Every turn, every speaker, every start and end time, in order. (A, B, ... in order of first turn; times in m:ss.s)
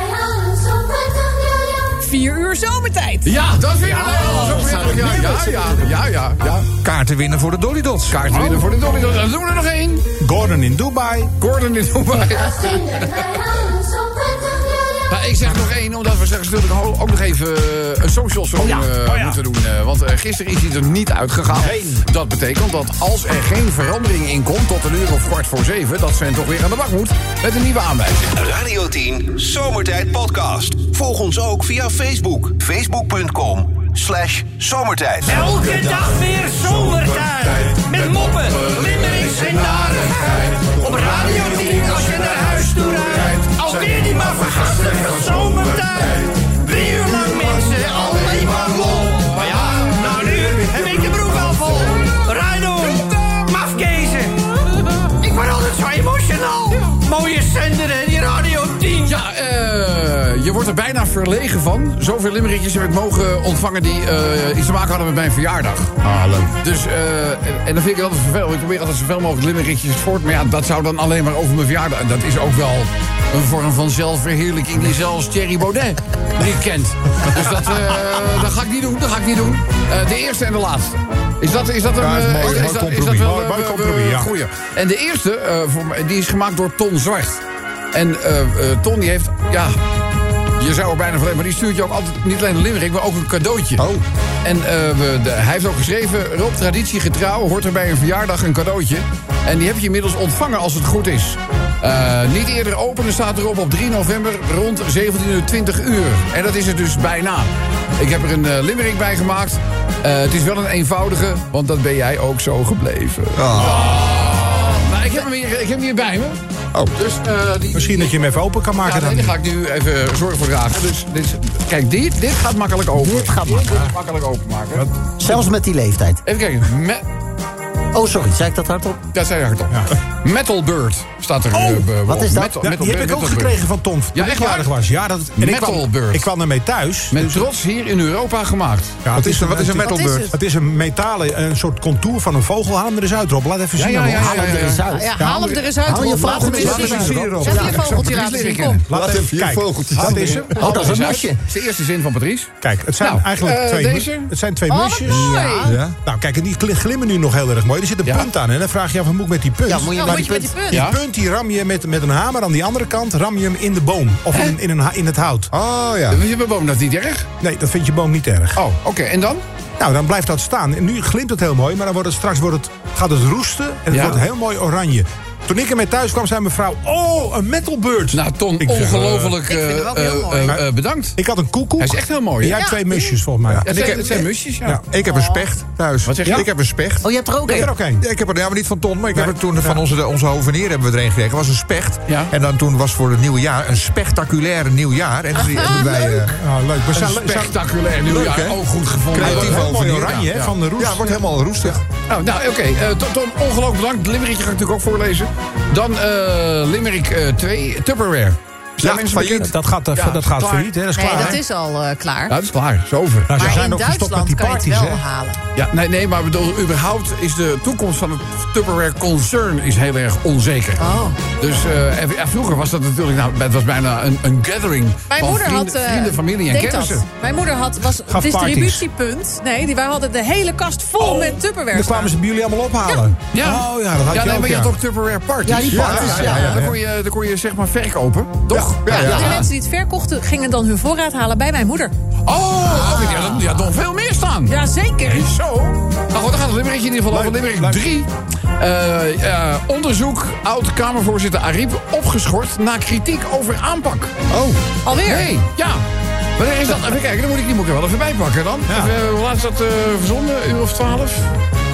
0:02.0-0:03.4 A
0:03.2-0:06.7 B
0:03.8-0:05.8 C
0:06.8-0:08.2 D
0:08.1-0:10.1 B
0:08.3-0:08.7 E
0:10.2-0:11.3 E
0:11.4-0:13.3 B
0:15.1-0:28.3 B
0:18.6-0:19.4 E
0:21.5-0:22.0 E
0:28.4-0:35.4 F
0:35.2-0:54.5 G
0:55.2-0:59.2 G
0:59.0-1:27.4 B
1:06.1-1:06.4 D
1:22.0-1:23.3 D
1:22.4-1:24.3 E
1:27.9-1:29.8 B
1:30.6-1:33.9 B
1:33.8-1:34.0 D
1:34.4-1:56.4 B
1:53.4-1:54.0 D
1:57.0-1:58.3 B
1:57.7-1:59.4 E
1:58.8-2:04.9 B
2:02.9-2:03.9 C
2:04.8-2:05.3 E
2:05.2-2:06.2 C
2:06.2-2:07.0 B
2:07.9-2:09.0 C
2:09.1-2:13.6 B
2:11.6-2:11.8 E
2:12.0-2:12.6 C
2:12.6-2:17.5 E
2:14.1-2:14.8 B
2:15.4-2:16.3 B
2:17.1-2:19.0 B
2:19.0-2:27.4 E
2:19.1-2:20.3 D
2:19.8-2:20.4 A
2:23.8-2:24.8 B
2:24.1-2:27.6 C
2:24.9-2:28.9 A
2:26.3-2:28.1 D
2:26.7-2:28.9 B
2:28.9-2:31.2 E
2:28.9-2:30.4 D
2:29.9-2:34.3 B
2:30.6-2:31.4 C
2:32.6-2:45.5 E
2:34.7-2:35.8 A
2:35.1-2:35.8 C
2:35.6-2:36.0 D
2:39.7-2:40.6 C
2:39.9-2:40.9 A
2:40.7-2:41.0 B
2:45.5-2:46.2 D
2:46.1-2:47.3 B
2:47.4-2:48.6 E
2:48.6-2:49.4 B
2:49.8-2:59.4 E
2:53.9-2:54.2 B
2:58.1-3:01.2 B
2:59.5-3:00.6 A
3:00.5-3:03.9 E
3:01.8-3:02.8 B
3:02.6-3:03.2 A
3:03.5-3:04.3 D
3:03.6-3:04.8 B
3:04.8-3:16.4 D
3:05.0-3:05.4 A
3:06.0-3:06.5 B
3:07.0-3:07.7 C
3:07.5-3:08.1 E
3:09.1-3:09.8 E
3:12.1-3:12.3 B
3:16.3-3:17.6 E
3:16.9-3:20.6 B
3:18.0-3:21.8 D
3:19.2-3:21.8 E
3:22.1-3:31.4 B
3:28.8-3:29.5 D
3:29.3-3:31.4 E
3:30.9-3:32.4 A
3:32.3-3:33.6 B
3:33.3-3:35.0 E
3:33.4-3:35.4 A
3:35.6-3:47.0 B
3:40.8-3:41.2 A
3:45.1-3:52.2 A
3:48.1-3:48.8 E
3:51.0-3:54.7 E
3:52.8-3:53.1 A
3:53.3-3:59.5 B
3:55.4-3:56.6 C
3:55.7-3:56.8 D
3:55.8-3:56.2 E
3:58.5-3:59.4 D
3:58.9-4:01.9 A
4:02.3-4:14.1 B
4:02.8-4:03.4 A
4:04.5-4:05.3 A
4:07.1-4:07.9 E
4:14.3-4:14.6 D
4:14.8-4:15.3 A
4:15.0-4:15.8 B
4:16.4-4:21.3 B
4:18.7-4:18.9 E